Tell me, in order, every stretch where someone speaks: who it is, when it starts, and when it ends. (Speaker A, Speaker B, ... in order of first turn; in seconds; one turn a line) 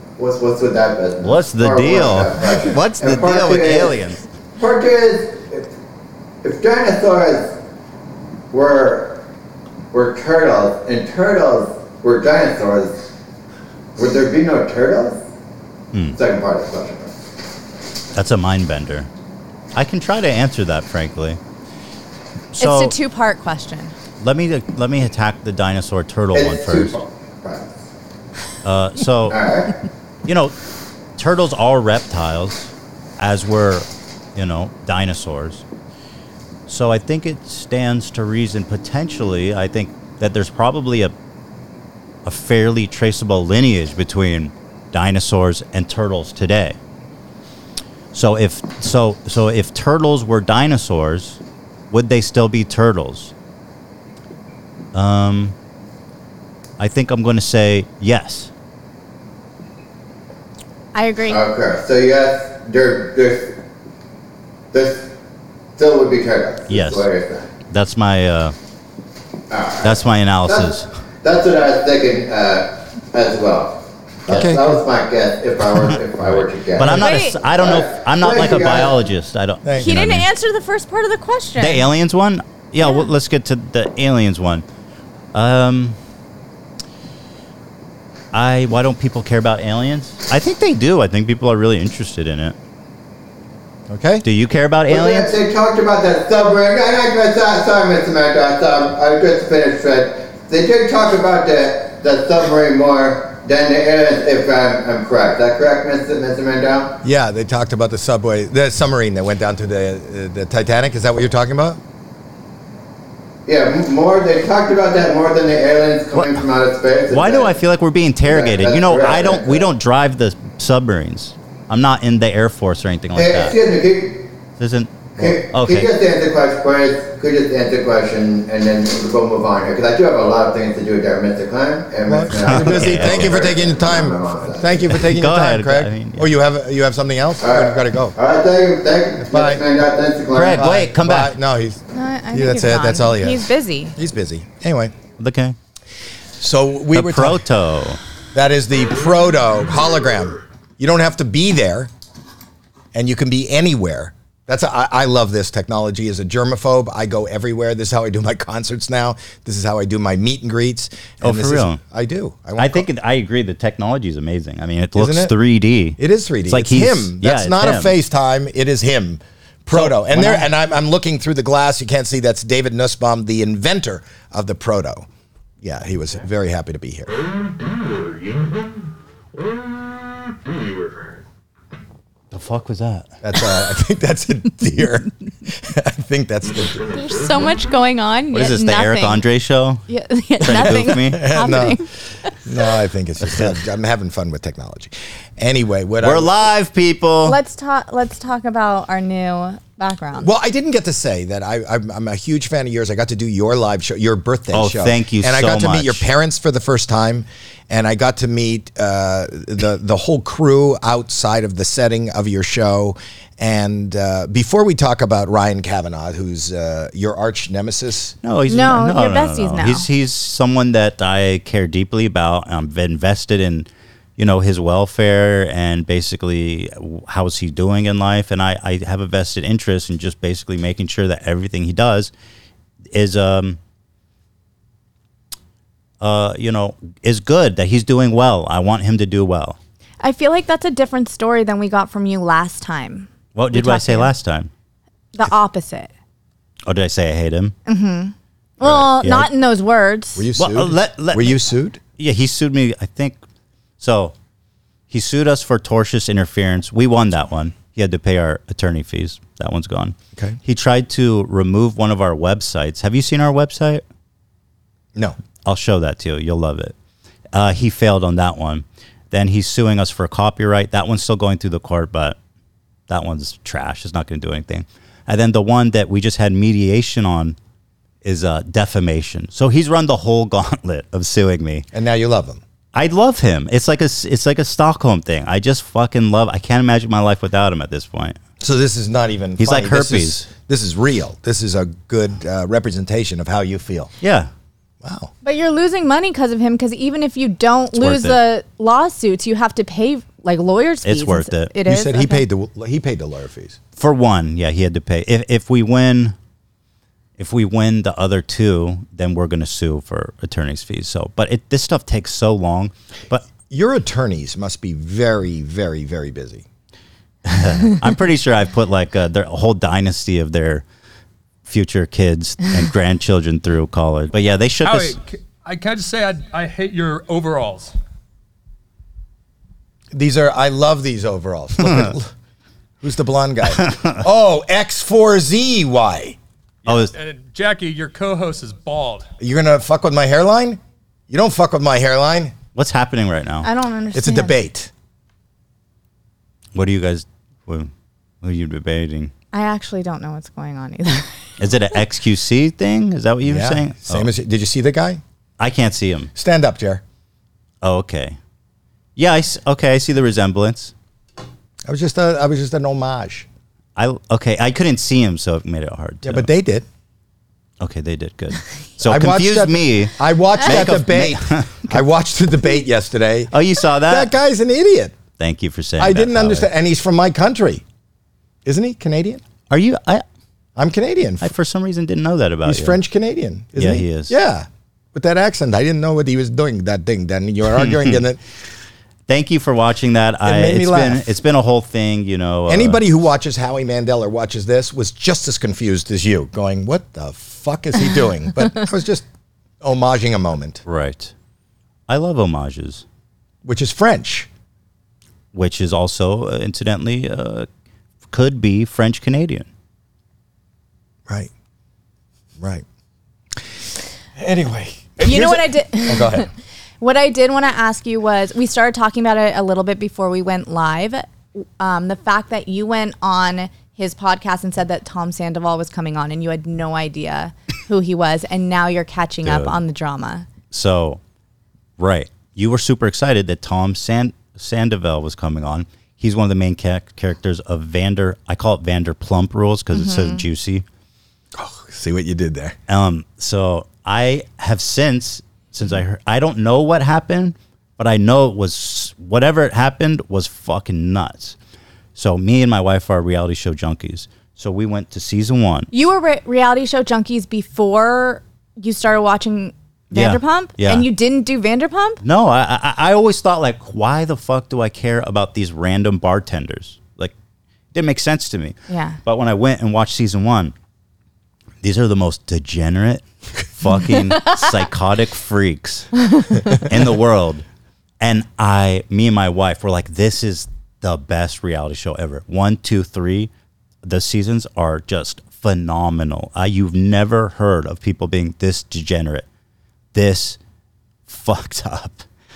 Speaker A: 0.2-4.0
Speaker B: 1.2-4.2
Speaker A: 4.6-5.7
Speaker A: 6.4-7.6
Speaker A: 8.5-9.2
Speaker A: 9.9-13.0
Speaker A: 13.9-15.2
Speaker B: 15.9-16.2
Speaker A: 16.1-17.1
Speaker B: 18.1-19.1
Speaker B: 19.7-21.4
Speaker B: 22.5-22.9
Speaker C: 22.6-23.9
Speaker B: 24.2-27.0
Speaker A: 26.3-27.8
Speaker B: 28.6-29.4
Speaker A: 29.3-29.7
Speaker B: 30.2-30.5
Speaker B: 31.1-35.6
Speaker B: 36.7-41.1
Speaker B: 42.2-46.8
Speaker B: 48.1-51.4
Speaker B: 51.9-53.3
Speaker B: 54.9-55.5
Speaker B: 56.8-58.5
Speaker C: 60.9-61.4
Speaker A: 61.3-63.5
Speaker A: 64.7-65.1
Speaker A: 65.8-67.5
Speaker B: 66.7-67.1
Speaker B: 67.7-68.5
Speaker A: 69.5-79.0
Speaker B: 69.8-70.9
Speaker D: 74.3-74.6
Speaker B: 76.2-80.2
Speaker C: 76.9-77.4
Speaker D: 79.6-80.1
Speaker C: 79.8-81.9
Speaker B: 81.6-84.6
Speaker B: 85.3-86.0
Speaker B: 88.3-92.5
Speaker D: 93.9-94.2
Speaker B: 94.2-95.3
Speaker A: 94.9-107.0
Speaker D: 107.0-111.8
Speaker A: 113.5-117.5
Speaker B: 116.1-116.4
Speaker B: 117.1-123.5
Speaker A: 118.2-119.7
Speaker A: 123.1-124.3
Speaker B: 124.6-125.9
Speaker A: 125.2-135.0
Speaker D: 132.1-138.1
Speaker B: 132.4-133.4
Speaker B: 134.9-136.3
Speaker A: 137.4-140.7
Speaker D: 139.2-139.6
Speaker B: 140.3-141.3
Speaker D: 140.6-144.9
Speaker C: 141.9-143.9
Speaker B: 145.2-145.6
Speaker D: 146.4-147.4
Speaker B: 146.9-148.0
Speaker D: 148.3-151.9
Speaker D: 152.9-162.9
Speaker B: 161.2-161.8
Speaker B: 162.6-167.9
Speaker D: 164.9-165.3
Speaker D: 166.0-175.1
Speaker B: 169.7-170.5
Speaker D: 175.6-177.1
Speaker B: 182.3-183.1
Speaker D: 183.2-186.9
Speaker C: 186.9-189.2
Speaker B: 188.3-189.8
Speaker C: 189.9-191.9
Speaker B: 190.4-191.3
Speaker D: 190.5-191.8
Speaker D: 192.4-196.4
Speaker B: 193.2-193.5
Speaker B: 196.0-197.4
Speaker C: 197.2-200.3
Speaker D: 200.2-218.2
Speaker B: 204.5-206.1
Speaker B: 218.2-232.1
Speaker C: 218.5-219.9
Speaker B: 232.9-233.6
Speaker B: 236.0-239.6
Speaker C: 240.0-244.1
Speaker B: 243.3-244.5
Speaker C: 245.1-245.9
Speaker B: 246.7-247.6
Speaker C: 247.7-250.2
Speaker B: 248.6-249.3
Speaker D: 250.2-251.8
Speaker B: 250.4-253.2
Speaker B: 253.8-254.1
Speaker B: 254.9-263.8
Speaker B: 265.4-266.7
Speaker B: 267.3-272.2
Speaker B: 272.9-277.4
Speaker B: 278.0-281.7
Speaker D: 281.7-282.4
Speaker B: 282.7-288.2
Speaker D: 288.4-293.9
Speaker B: 289.4-290.3
Speaker B: 294.0-294.3
Speaker D: 294.8-295.1
Speaker C: 295.2-302.2
Speaker B: 297.7-298.2
Speaker B: 300.9-301.5
Speaker D: 301.6-303.6
Speaker B: 303.8-306.1
Speaker B: 307.2-313.3
Speaker D: 313.5-316.4
Speaker B: 317.2-320.6
Speaker B: 321.4-325.0
Speaker E: 324.6-327.7
Speaker D: 329.9-332.1
Speaker D: 332.8-336.2
Speaker B: 333.6-334.0
Speaker B: 336.6-336.9
Speaker E: 336.6-339.1
Speaker D: 339.2-342.4
Speaker B: 342.5-343.5
Speaker C: 343.4-344.4
Speaker D: 343.9-344.7
Speaker B: 346.5-347.7
Speaker B: 348.2-349.1
Speaker C: 349.3-351.2
Speaker B: 351.4-354.1
Speaker D: 353.2-355.0
Speaker B: 355.4-356.1
Speaker D: 356.1-356.8
Speaker B: 357.6-358.2
Speaker B: 358.9-360.7
Speaker D: 361.7-363.3
Speaker B: 363.8-366.3
Speaker D: 366.0-366.6
Speaker B: 367.6-371.8
Speaker D: 368.8-375.0
Speaker B: 373.3-374.1
Speaker B: 375.2-376.5
Speaker D: 375.8-377.6
Speaker D: 378.4-379.2
Speaker B: 379.5-380.0
Speaker D: 380.6-381.3
Speaker B: 381.2-382.8
Speaker D: 382.4-388.2
Speaker B: 383.6-384.1
Speaker B: 387.6-388.0
Speaker B: 389.1-392.8
Speaker D: 390.2-391.1
Speaker D: 392.5-399.0
Speaker D: 399.6-400.6
Speaker B: 400.6-401.1
Speaker B: 401.9-402.8
Speaker D: 403.4-404.3
Speaker B: 405.3-407.5
Speaker B: 408.1-409.5
Speaker D: 412.4-412.6
Speaker D: 414.1-416.3
Speaker C: 415.0-416.3
Speaker C: 416.8-421.1
Speaker C: 421.6-430.3
Speaker B: 429.2-429.5
Speaker B: 430.5-431.0
Speaker B: 431.8-440.6
Speaker C: 439.7-440.2
Speaker D: 441.3-442.6
Speaker B: 442.7-451.4
Speaker B: 451.9-455.7
Speaker C: 455.7-462.0
Speaker B: 459.9-460.9
Speaker B: 462.0-467.1
Speaker B: 467.7-470.5
Speaker C: 468.7-469.0
Speaker B: 471.6-475.9
Speaker C: 476.1-476.4
Speaker B: 476.5-477.4
Speaker B: 478.0-483.3
Speaker B: 483.8-489.2
Speaker B: 489.9-490.4
Speaker B: 491.1-492.0